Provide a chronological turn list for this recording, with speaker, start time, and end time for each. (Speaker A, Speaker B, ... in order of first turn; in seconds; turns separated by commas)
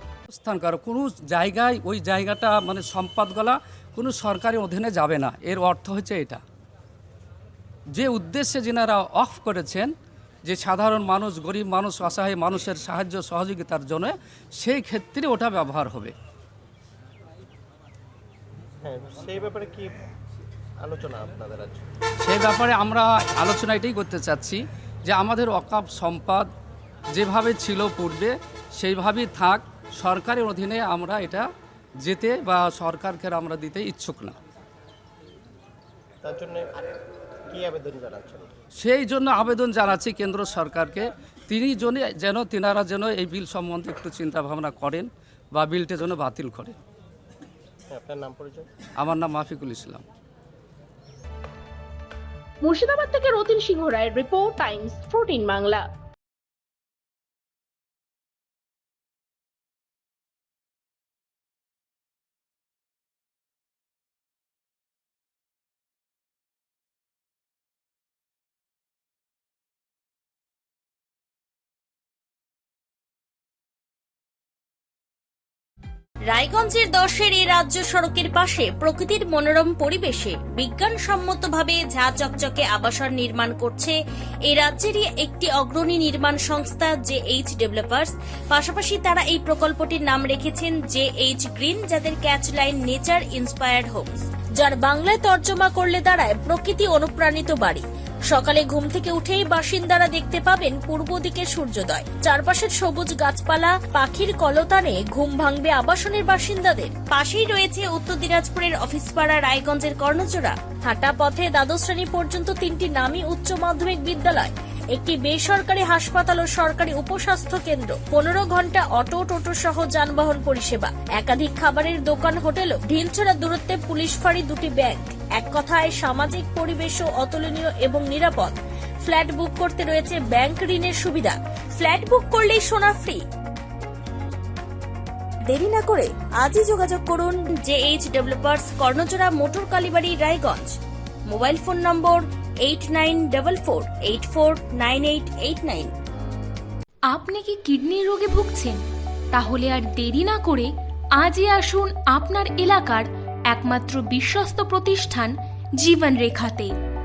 Speaker A: 0.3-6.4, Speaker A: 8.0-9.9, Speaker A: 10.4-16.1, Speaker B: 18.8-19.9, Speaker B: 20.8-21.8, Speaker A: 22.2-26.5, Speaker A: 27.1-31.5, Speaker A: 32.0-34.4, Speaker B: 36.2-36.7, Speaker B: 37.5-38.5, Speaker A: 38.8-46.8, Speaker B: 47.9-48.7, Speaker A: 49.0-50.0, Speaker C: 52.6-55.9, Speaker D: 76.3-84.0, Speaker D: 84.5-133.2, Speaker D: 135.4-140.7, Speaker D: 141.3-145.9, Speaker E: 147.1-148.8, Speaker E: 149.3-156.7